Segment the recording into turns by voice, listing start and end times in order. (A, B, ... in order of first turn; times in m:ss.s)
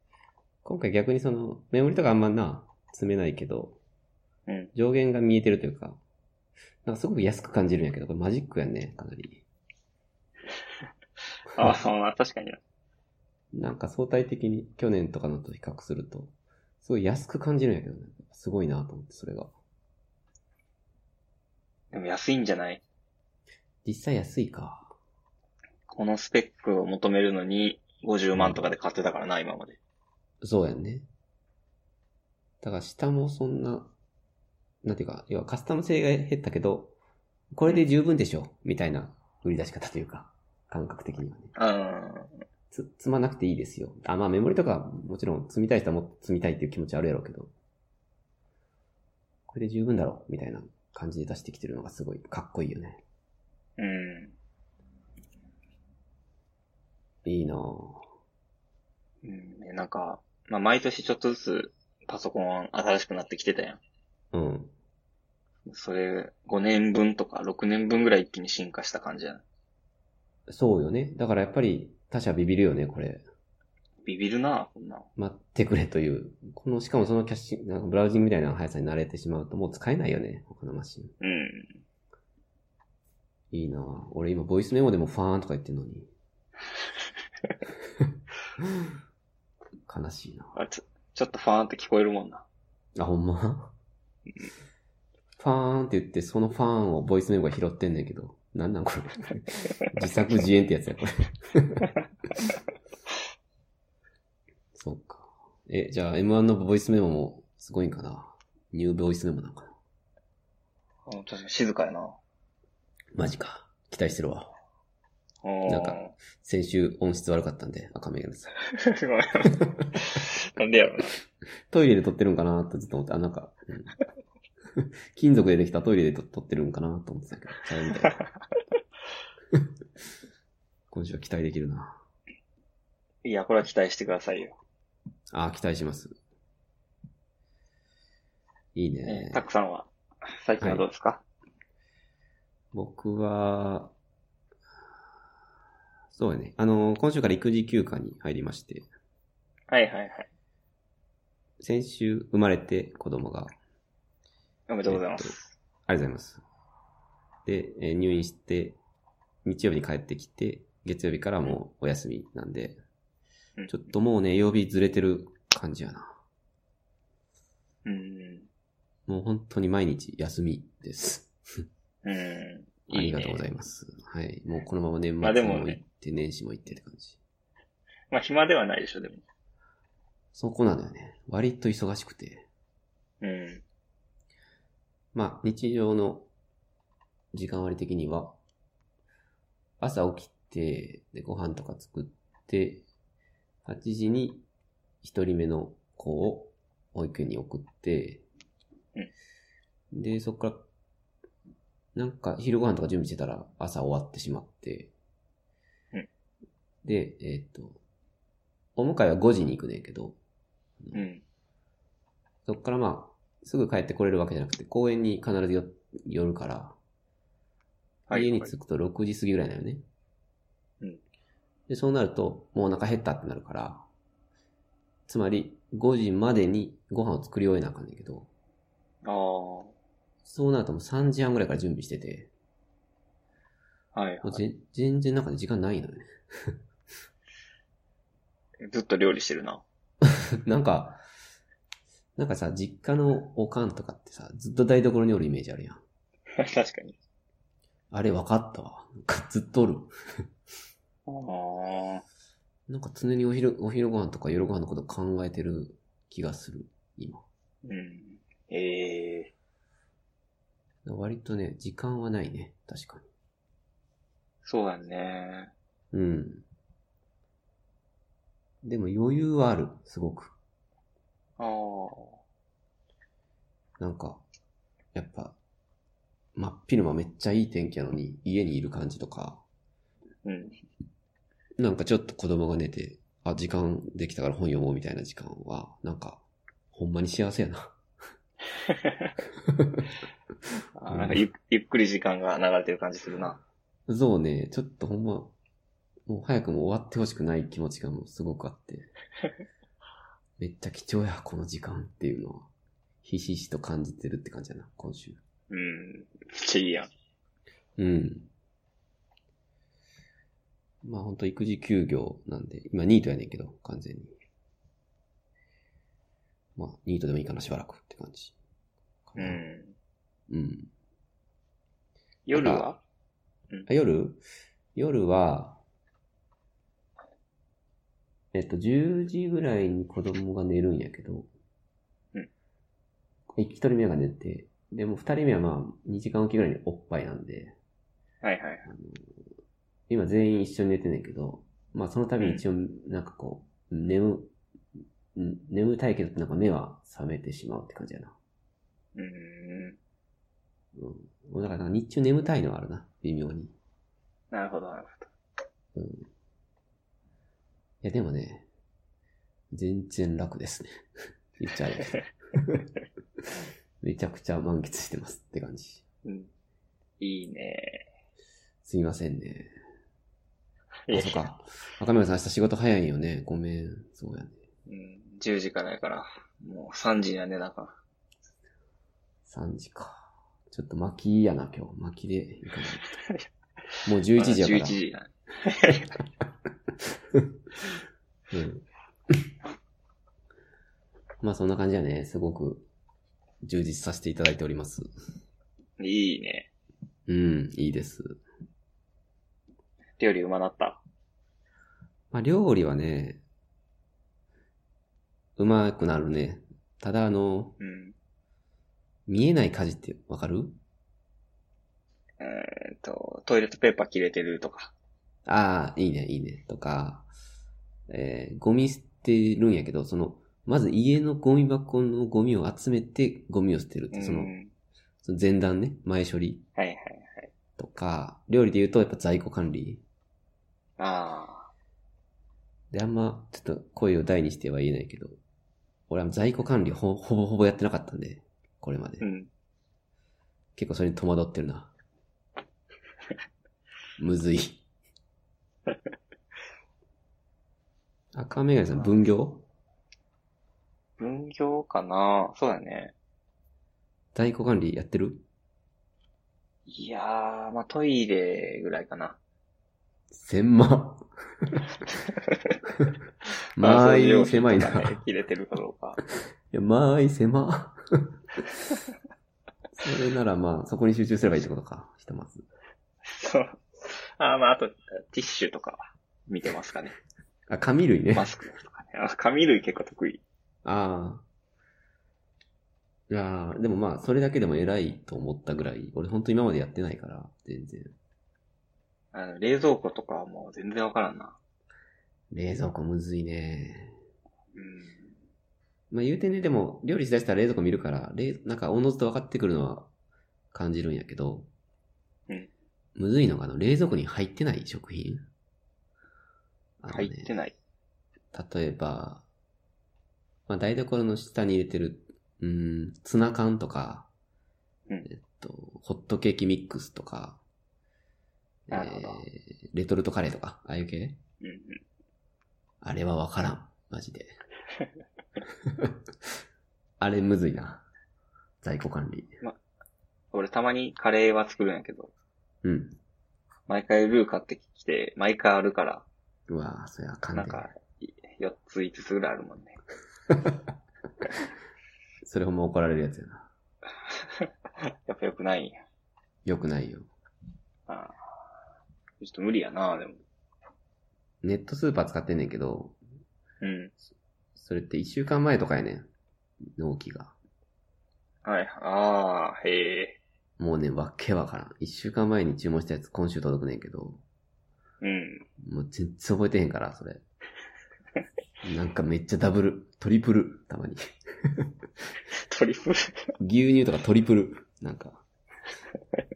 0:00.6-0:03.8 A
0:04.7-0:06.0 A
0:06.8-0:09.4 A
0:11.5-0:12.6 B
0:13.5-0:19.5 A
0:21.9-0:22.8 B
0:23.8-0:24.9 A
0:25.9-0:29.8 B
0:28.3-0:28.6 A
0:30.4-0:31.1 A
0:32.6-0:33.9 A
0:34.8-0:37.0 A
0:37.5-0:41.5 A
0:41.5-0:42.4 B
0:42.7-0:47.5 A
0:49.5-0:53.0 A
0:53.8-0:54.3 B
0:57.2-0:58.0 A
0:59.2-1:03.8 B
1:04.3-1:04.7 A
1:05.6-1:09.4 B
1:10.5-1:13.2 A
1:14.0-1:15.1 B
1:15.2-1:21.1 A
1:21.2-1:21.8 B
1:23.5-1:26.1 A
1:29.9-1:30.5 A
1:30.5-1:32.4 B
1:33.0-1:33.7 A
1:35.4-1:41.8 A
1:44.7-1:49.7 A
1:51.1-1:52.2 B
1:53.1-1:54.5 A
1:55.4-1:56.1 B
1:55.6-1:58.5 A
1:58.7-2:01.2 B
2:01.7-2:03.9 A
2:04.8-2:08.2 A
2:10.9-2:12.0 A
2:13.2-2:14.6 B
2:15.3-2:16.1 A
2:18.7-2:19.4 A
2:19.0-2:19.9 B
2:20.4-2:21.2 B
2:22.7-2:23.9 A
2:26.1-2:28.9 A
2:29.7-2:30.3 B
2:31.6-2:33.6 A
2:34.7-2:35.5 B
2:34.9-2:35.4 A
2:35.9-2:36.4 A
2:37.4-2:38.8 A
2:39.4-2:42.8 A
2:43.7-2:46.1 A
2:47.8-2:48.5 B
2:49.1-2:51.3 A
2:52.0-2:53.4 B
2:52.9-2:57.2 A
2:55.2-2:55.8 B
2:58.1-2:59.2 B
3:00.3-3:02.4 A
3:03.2-3:03.6 B
3:05.1-3:06.3 A
3:07.3-3:08.4 A
3:09.8-3:12.8 A
3:13.6-3:14.4 A
3:15.0-3:18.2 A
3:19.9-3:20.6 A
3:21.9-3:24.9 A
3:26.8-3:27.8 A
3:28.8-3:30.2 A
3:30.9-3:31.2 B
3:32.4-3:36.8 A
3:38.1-3:38.5 B
3:38.1-3:39.8 A
3:41.7-3:43.8 A
3:45.1-3:48.3 A
3:49.0-3:49.7 B
3:50.2-3:52.3 A
3:53.9-3:54.4 B
3:54.2-3:56.5 A
3:58.6-3:59.6 B
4:00.4-4:01.0 A
4:02.2-4:05.8 A
4:06.4-4:07.0 B
4:07.9-4:09.9 A
4:11.1-4:12.0 B
4:12.7-4:17.2 A
4:17.6-4:19.3 B
4:20.8-4:23.0 A
4:24.4-4:25.5 B
4:25.9-4:26.4 A
4:28.6-4:30.3 A
4:31.4-4:32.2 B
4:33.8-4:34.2 A
4:34.9-4:35.4 A
4:36.4-4:39.4 A
4:40.2-4:40.6 B
4:41.6-4:47.7 A
4:48.6-4:49.1 B
4:50.7-4:53.4 B
4:50.9-4:51.2 A
4:53.9-4:55.3 A
4:56.1-4:58.9 A
5:00.4-5:02.5 A
5:03.0-5:05.2 A
5:05.5-5:06.9 B
5:07.8-5:08.3 A
5:10.8-5:14.1 A
5:16.6-5:18.3 A
5:19.1-5:19.4 A
5:19.2-5:19.7 B
5:20.3-5:20.7 A
5:22.3-5:22.8 B
5:22.3-5:22.7 A
5:23.7-5:24.2 A
5:24.7-5:25.6 A
5:28.3-5:31.3 A
5:33.4-5:37.5 A
5:38.2-5:38.6 B
5:38.7-5:39.0 A
5:39.9-5:44.3 A
5:45.1-5:48.1 A
5:48.9-5:49.8 B
5:50.8-5:53.5 A
5:54.3-5:55.1 B
5:55.7-5:56.1 A
5:57.8-5:58.4 A
5:59.5-6:00.8 A
6:01.4-6:02.6 A
6:03.8-6:05.8 A
6:06.0-6:06.3 B
6:07.0-6:07.8 B
6:08.6-6:09.5 A
6:10.9-6:11.3 B
6:10.9-6:14.3 A
6:14.7-6:17.8 B
6:19.2-6:22.9 A
6:23.8-6:24.8 A
6:24.1-6:25.9 B
6:28.3-6:29.2 A
6:31.2-6:32.7 A
6:33.4-6:34.9 A
6:35.8-6:36.5 B
6:37.1-6:38.2 A
6:40.0-6:40.8 B
6:42.1-6:43.2 A
6:45.4-6:47.6 A
6:47.6-6:47.9 B
6:49.1-6:50.6 A
6:52.2-6:54.7 B
6:55.2-6:57.1 A
6:57.9-7:04.3 A
7:03.9-7:04.5 B
7:05.0-7:06.4 A
7:06.6-7:07.3 B
7:07.6-7:09.8 A
7:10.8-7:11.5 B
7:12.7-7:15.2 A
7:15.9-7:19.0 A
7:19.0-7:19.3 B
7:20.6-7:21.7 A
7:24.0-7:24.6 A
7:28.1-7:29.4 A
7:31.0-7:32.9 B
7:34.1-7:35.2 A
7:36.7-7:39.2 B
7:40.1-7:41.6 A
7:43.6-7:45.0 A
7:43.6-7:46.0 B
7:46.5-7:47.8 A
7:49.8-7:52.4 A
7:53.1-7:56.9 B
7:57.5-7:58.3 A
7:58.1-8:00.2 B
8:00.6-8:01.2 A
8:03.1-8:07.9 A
8:09.1-8:11.4 B
8:12.3-8:13.9 A
8:14.5-8:15.1 B
8:15.9-8:19.9 A
8:20.5-8:21.5 A
8:23.0-8:25.3 A
8:26.8-8:27.3 A
8:26.9-8:27.6 B
8:28.3-8:29.2 A
8:30.5-8:34.1 A
8:35.1-8:37.4 A
8:38.7-8:41.2 A
8:38.7-8:39.2 B
8:41.4-8:41.8 B
8:42.8-8:44.3 A
8:45.7-8:45.9 A
8:47.0-8:47.8 A
8:48.6-8:49.3 A
8:50.3-8:52.1 B
8:52.6-8:53.0 A
8:53.7-8:56.0 B
8:56.5-8:57.7 A
8:57.3-8:59.8 B
9:02.2-9:03.5 A
9:05.0-9:05.8 B
9:06.4-9:07.1 A
9:07.9-9:08.1 B
9:09.2-9:10.2 B
9:11.4-9:13.0 A
9:13.6-9:13.9 B
9:14.6-9:16.1 A
9:16.8-9:17.3 A
9:18.4-9:20.2 B
9:20.6-9:24.2 A
9:25.0-9:25.4 B
9:25.6-9:27.2 A
9:28.6-9:31.0 A
9:32.3-9:33.3 B
9:33.4-9:35.2 A